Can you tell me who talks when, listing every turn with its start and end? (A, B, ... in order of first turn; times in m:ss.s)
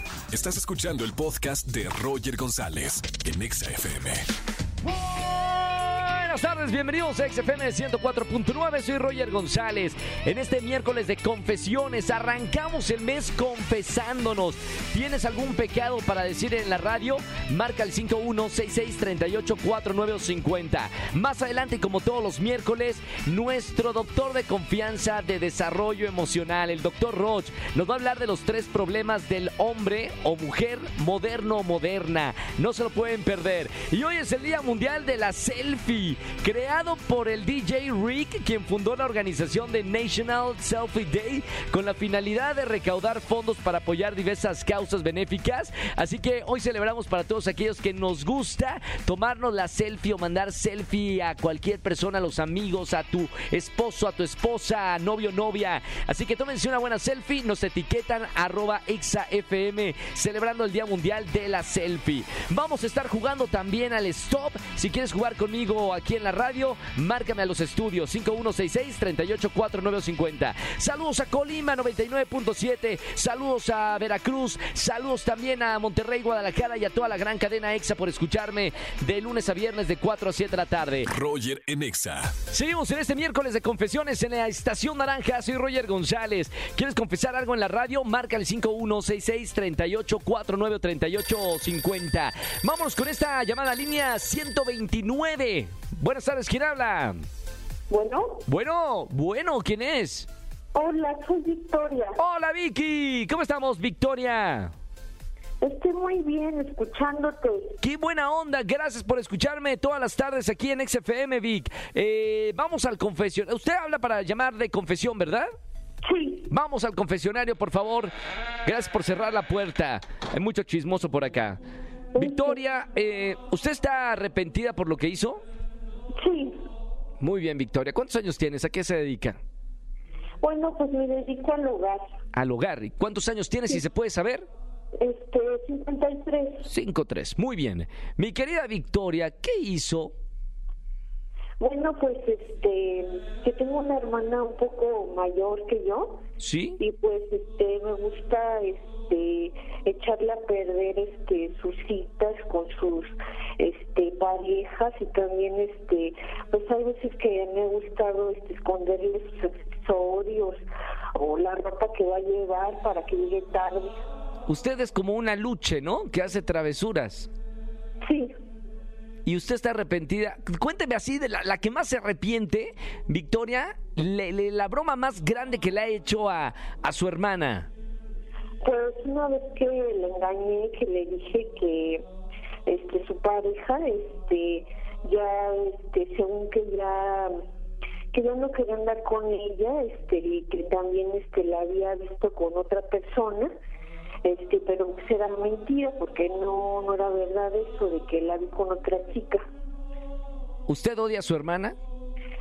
0:00.3-0:04.2 A
0:04.9-1:21.1 B
1:21.1-1:22.4 A
1:22.4-1:37.2 B
1:37.9-1:38.4 C
1:38.5-1:40.3 B
1:40.7-1:42.2 C
1:42.2-1:44.7 B
1:45.6-1:47.7 C
1:47.8-1:55.5 B
1:56.0-1:56.5 C
1:56.5-1:58.1 B
1:58.6-2:01.6 B
2:02.1-2:02.6 C
2:02.2-2:05.4 B
2:06.2-2:06.6 C
2:07.2-2:09.4 B
2:10.4-2:12.0 C
2:12.3-2:14.4 B
2:14.9-2:16.7 C
2:16.6-2:20.1 B
2:21.6-2:26.2 C
2:26.4-2:26.8 B
2:26.8-2:40.6 C
2:41.1-2:43.9 C
2:44.5-2:47.3 B
2:48.0-2:48.3 C
2:49.2-2:57.7 B
2:58.6-3:02.0 C
3:02.6-3:07.3 C
3:08.1-3:13.5 C
3:14.2-3:19.4 C
3:20.7-3:21.7 B